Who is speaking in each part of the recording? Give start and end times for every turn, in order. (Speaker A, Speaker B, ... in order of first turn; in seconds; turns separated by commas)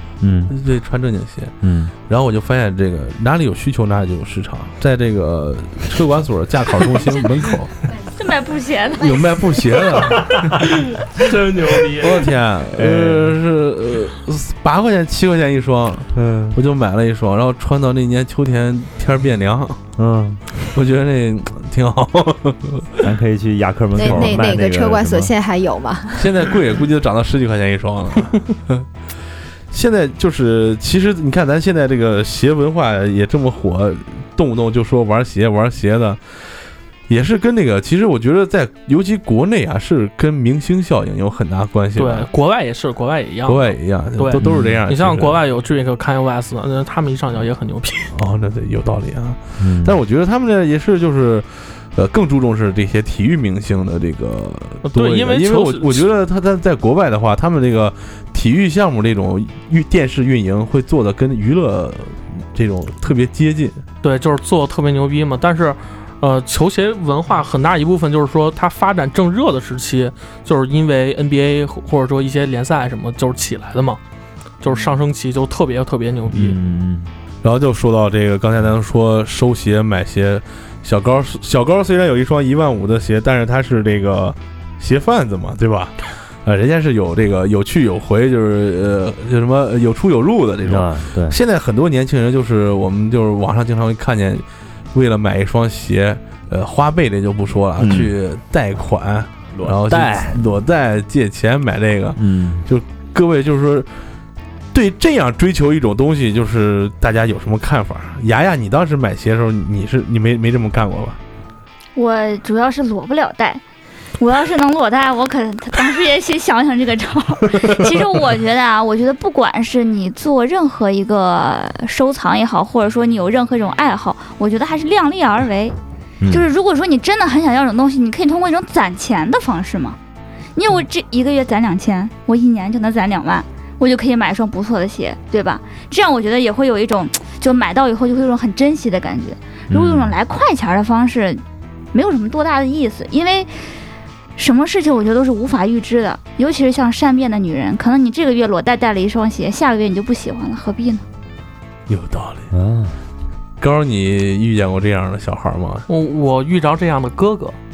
Speaker A: 0.2-0.5, Speaker B: 0.5-1.5, Speaker A: 1.6-1.9, Speaker B: 2.1-7.8, Speaker C: 8.1-9.3, Speaker B: 9.0-10.7, Speaker A: 10.3-10.5, Speaker D: 11.1-12.3, Speaker B: 11.8-19.8, Speaker A: 12.7-13.4, Speaker A: 16.1-16.6, Speaker A: 20.0-20.4, Speaker B: 20.7-22.9, Speaker A: 23.0-25.3, Speaker E: 23.9-26.3, Speaker B: 24.0-24.3, Speaker B: 26.1-28.9, Speaker B: 29.7-36.2, Speaker B: 37.1-42.3, Speaker D: 42.0-48.1, Speaker B: 43.5-45.4, Speaker A: 44.4-44.8, Speaker B: 48.1-63.8, Speaker A: 49.6-50.0, Speaker D: 54.8-56.1, Speaker D: 64.0-74.0, Speaker D: 74.6-76.6, Speaker A: 76.3-77.1, Speaker B: 77.4-103.9, Speaker A: 90.7-91.4, Speaker A: 97.8-98.1, Speaker A: 99.5-100.5, Speaker A: 102.2-102.6, Speaker B: 104.7-111.2, Speaker C: 112.0-113.6, Speaker C: 114.2-125.8, Speaker C: 126.3-130.0, Speaker C: 130.6-143.6, Speaker A: 139.7-140.1, Speaker C: 144.4-151.0, Speaker B: 151.9-152.5, Speaker A: 152.5-153.0, Speaker B: 153.6-155.9, Speaker D: 155.9-157.6